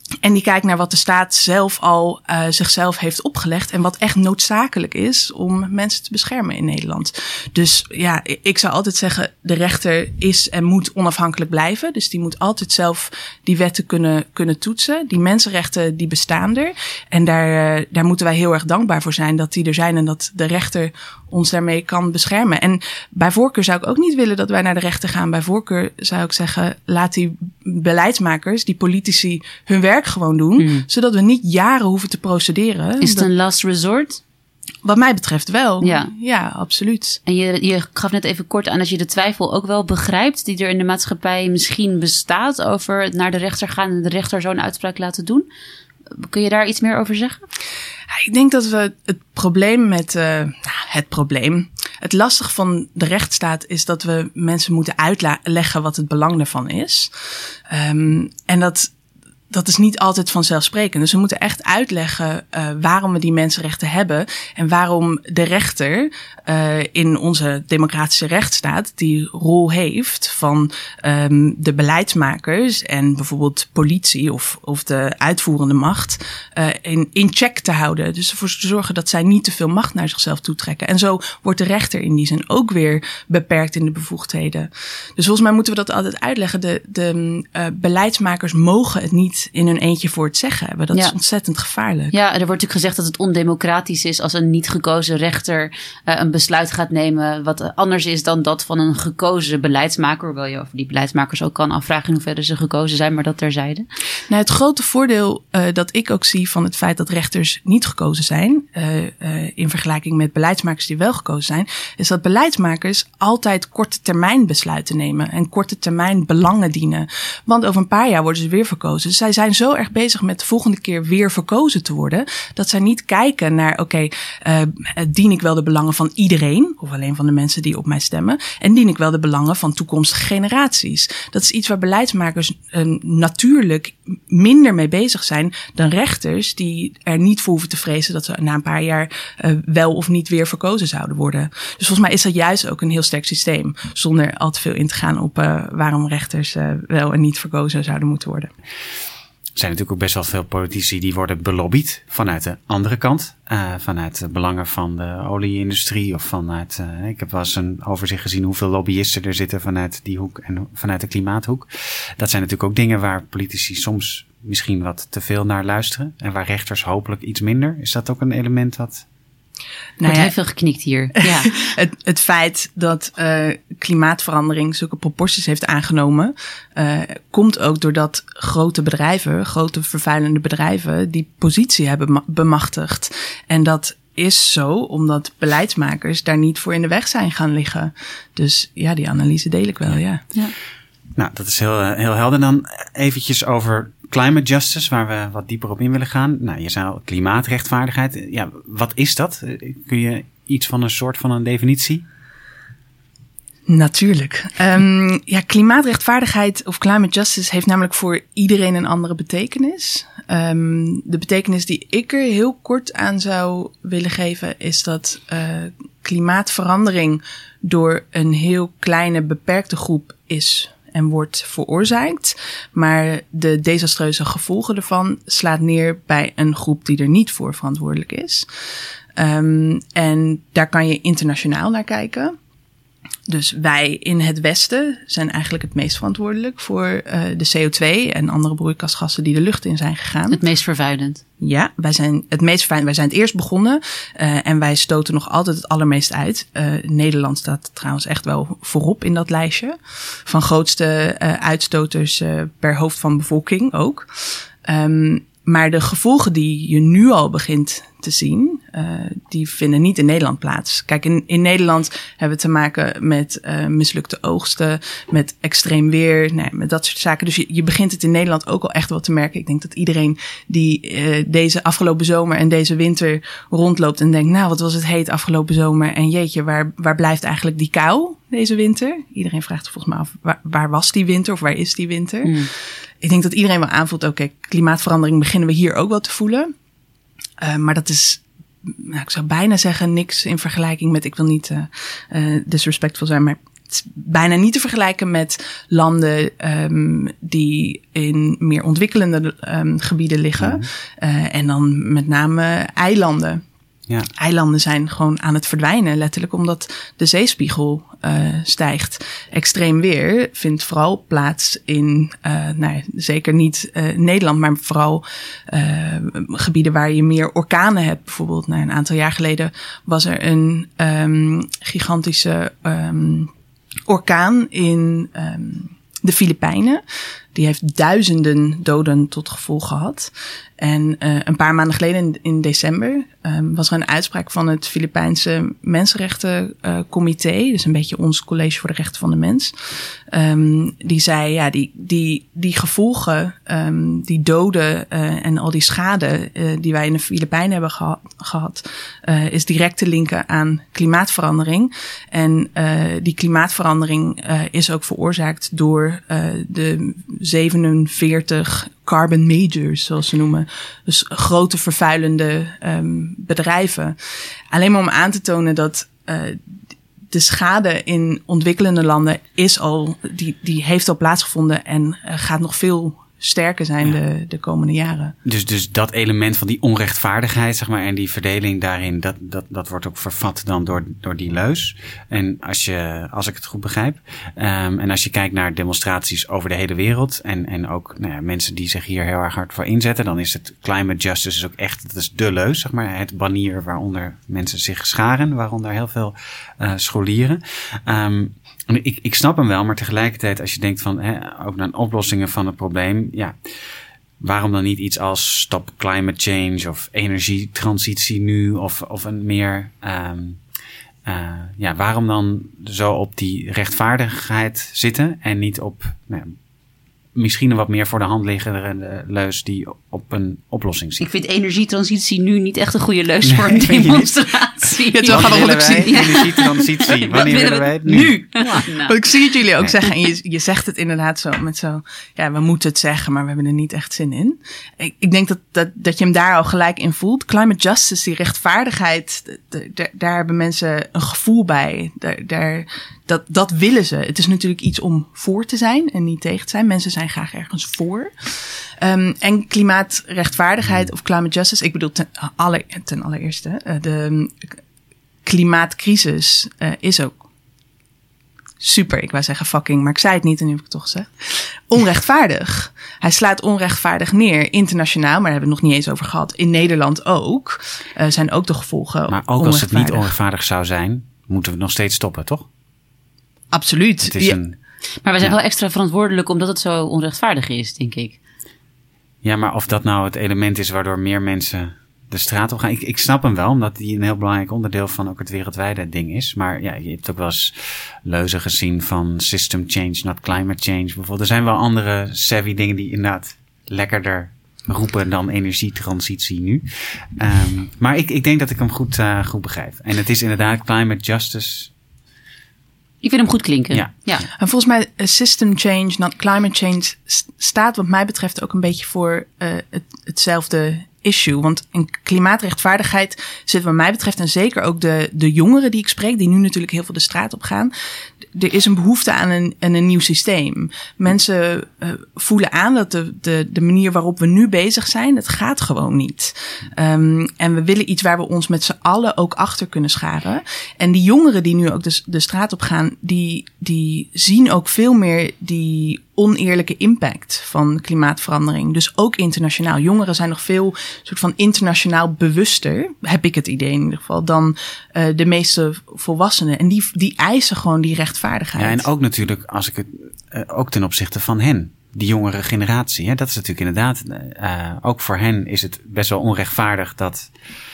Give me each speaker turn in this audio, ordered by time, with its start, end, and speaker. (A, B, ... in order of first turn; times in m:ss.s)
0:00.2-0:33.3 A
0:30.6-0:30.8 B
0:33.0-0:34.2 B
0:34.8-0:37.2 A
0:35.8-0:36.1 B
0:37.2-0:45.4 B
0:46.1-0:47.4 B
0:48.1-0:57.1 A
0:57.7-0:58.9 A
0:59.5-1:32.1 A
1:32.1-1:43.8 B
1:44.3-2:28.5 A
2:29.6-2:49.0 C
2:50.0-2:50.3 A
2:50.0-2:51.5 B
2:51.4-3:10.2 A
3:11.2-3:22.0 C
3:23.7-3:48.5 A
3:49.2-3:52.4 A
3:53.3-4:00.4 A
4:00.3-4:01.2 B
4:01.4-4:42.5 A
4:42.2-4:42.5 B
4:43.0-4:46.5 A
4:47.4-5:03.4 A
5:00.4-5:00.6 C
5:04.2-5:23.3 A
5:23.9-5:26.8 A
5:27.3-6:04.0 A
6:04.5-6:06.4 A
6:07.1-6:15.1 A
6:15.2-6:43.3 C
6:44.2-6:50.4 C
6:51.0-6:56.4 C
6:57.1-7:01.0 C
7:01.0-7:09.0 B
7:03.2-7:04.1 C
7:04.9-7:06.3 A
7:05.0-7:08.4 C
7:07.9-7:34.5 A
7:35.2-7:37.2 A
7:38.6-7:50.1 A
7:49.1-7:52.5 C
7:53.5-7:54.4 A
7:54.0-7:54.6 C
7:55.0-7:58.2 B
7:59.2-8:07.5 C
8:08.0-8:21.7 C
8:23.0-8:24.3 B
8:24.4-8:37.7 A
8:38.3-9:08.9 A
9:08.6-9:17.3 C